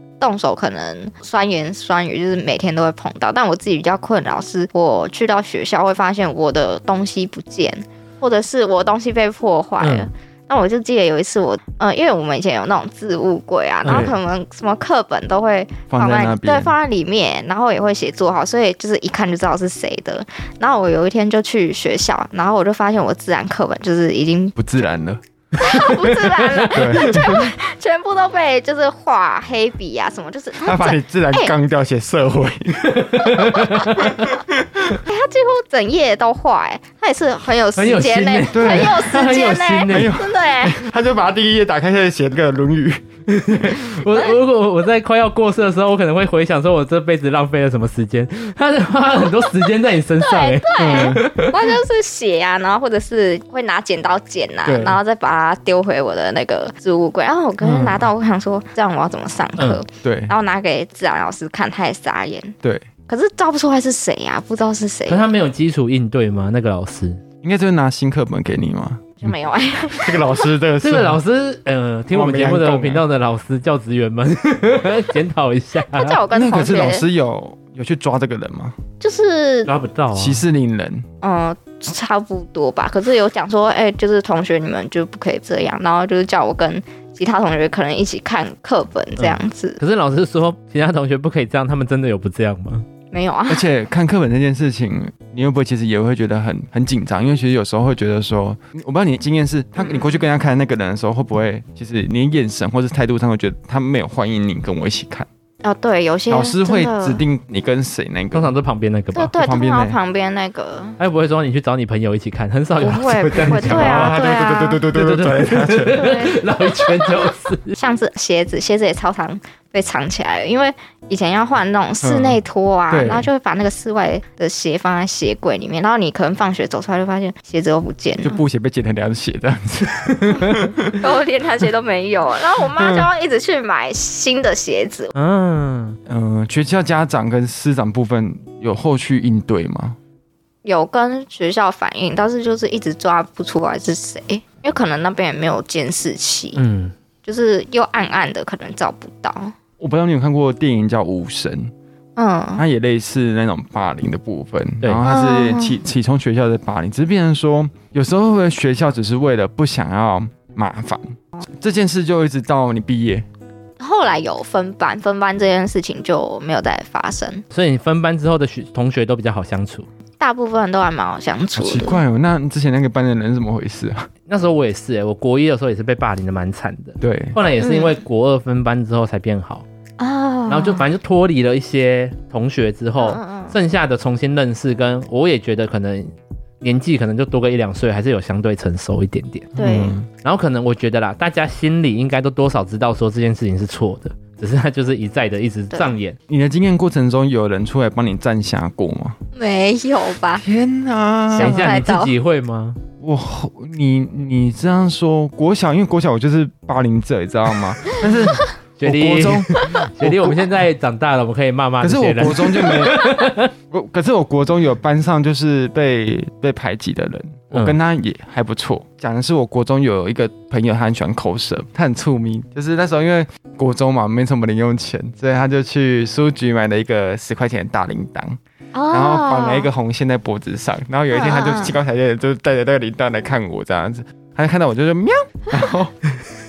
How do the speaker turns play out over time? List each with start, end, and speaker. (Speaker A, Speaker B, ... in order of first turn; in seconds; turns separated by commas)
Speaker A: 0.2-24.6, Speaker B: 9.8-10.1, Speaker B: 13.8-14.1, Speaker C: 13.8-14.2, Speaker C: 15.9-16.7, Speaker C: 24.6-25.2, Speaker B: 25.5-27.3, Speaker A: 25.6-31.5, Speaker C: 26.7-27.4, Speaker C: 30.6-35.0, Speaker B: 32.8-34.3, Speaker A: 35.0-40.8, Speaker B: 37.8-40.1, Speaker C: 38.5-39.1, Speaker C: 39.9-43.0, Speaker B: 43.3-51.7, Speaker A: 50.2-62.5, Speaker C: 50.8-51.2, Speaker C: 54.6-55.0, Speaker B: 59.6-59.8, Speaker C: 60.0-60.3, Speaker A: 63.1-65.2, Speaker B: 65.1-67.2, Speaker C: 67.4-69.3, Speaker A: 69.2-70.5, Speaker C: 69.9-71.2, Speaker B: 70.8-76.2, Speaker C: 72.1-73.0, Speaker A: 75.9-77.0, Speaker C: 76.3-78.8, Speaker A: 79.0-79.7, Speaker B: 79.7-80.4, Speaker C: 80.1-81.0, Speaker A: 81.2-89.8, Speaker B: 89.2-92.8, Speaker A: 93.1-93.7, Speaker C: 93.5-105.3, Speaker A: 99.8-100.1, Speaker A: 105.6-107.2, Speaker C: 106.3-108.5, Speaker B: 108.3-109.3, Speaker A: 109.1-111.0, Speaker C: 109.3-110.0, Speaker B: 111.0-114.2, Speaker A: 112.8-114.8, Speaker C: 113.5-116.1, Speaker B: 114.9-117.8, Speaker A: 115.9-128.4, Speaker C: 122.0-123.3, Speaker C: 128.2-131.1, Speaker B: 130.2-130.6, Speaker A: 130.9-135.1, Speaker C: 132.7-133.1, Speaker B: 135.1-136.0, Speaker C: 136.1-140.0, Speaker A: 140.6-146.6, Speaker B: 146.6-146.9, Speaker A: 147.2-149.5, Speaker C: 149.8-151.7, Speaker A: 152.2-152.6, Speaker C: 152.6-163.2, Speaker A: 155.0-155.8, Speaker A: 163.8-167.4, Speaker B: 167.5-169.9, Speaker A: 170.2-172.0, Speaker C: 171.5-174.1, Speaker B: 174.3-179.6, Speaker C: 177.0-177.4, Speaker A: 177.6-178.0, Speaker A: 180.0-180.8, Speaker B: 180.5-196.2, Speaker A: 183.0-183.6, Speaker C: 189.6-190.1, Speaker A: 189.6-189.9, Speaker C: 196.3-199.2, Speaker A: 199.3-200.4, Speaker C: 200.4-201.8, Speaker A: 201.3-202.1, Speaker B: 201.3-202.8, Speaker C: 203.0-210.6, Speaker B: 208.8-213.5, Speaker C: 211.8-228.4, Speaker B: 217.5-217.8, Speaker A: 228.7-229.7, Speaker C: 228.9-236.0, Speaker A: 231.1-231.8